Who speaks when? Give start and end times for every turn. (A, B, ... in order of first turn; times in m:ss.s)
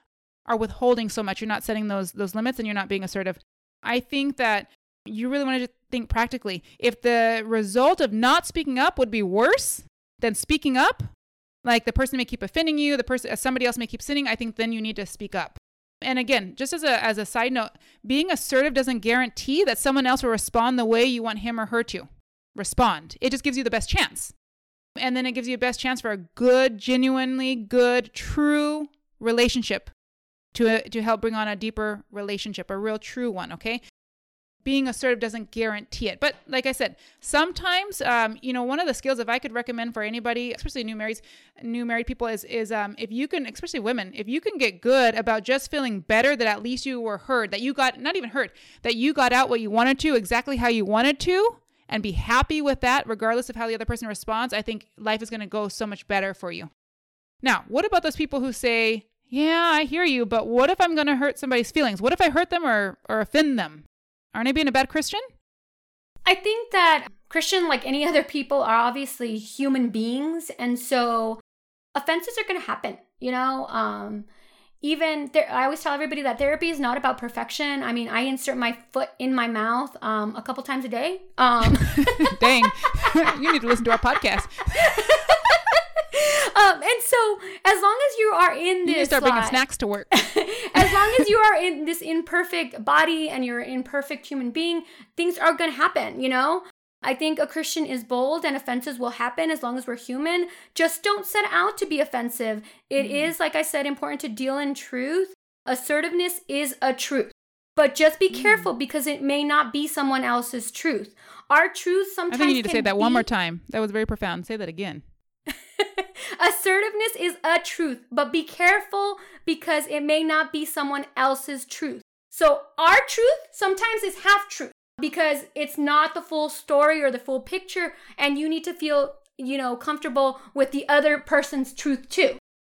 0:00.5-0:11.0 A
0:11.6-0:24.3 A
0:25.0-0:29.9 A
0:30.5-0:33.8 A
0:34.6-0:56.7 A
0:57.4-1:05.2 A
1:06.2-1:11.4 B
1:12.0-1:14.3 B
1:14.8-1:23.1 B
1:21.7-1:25.2 A
1:24.7-1:29.6 B
1:28.8-1:30.1 A
1:30.1-1:53.3 B
1:30.8-1:31.3 A
1:43.0-1:43.3 A
1:48.3-1:48.7 A
1:52.3-1:55.0 A
1:55.5-2:12.4 B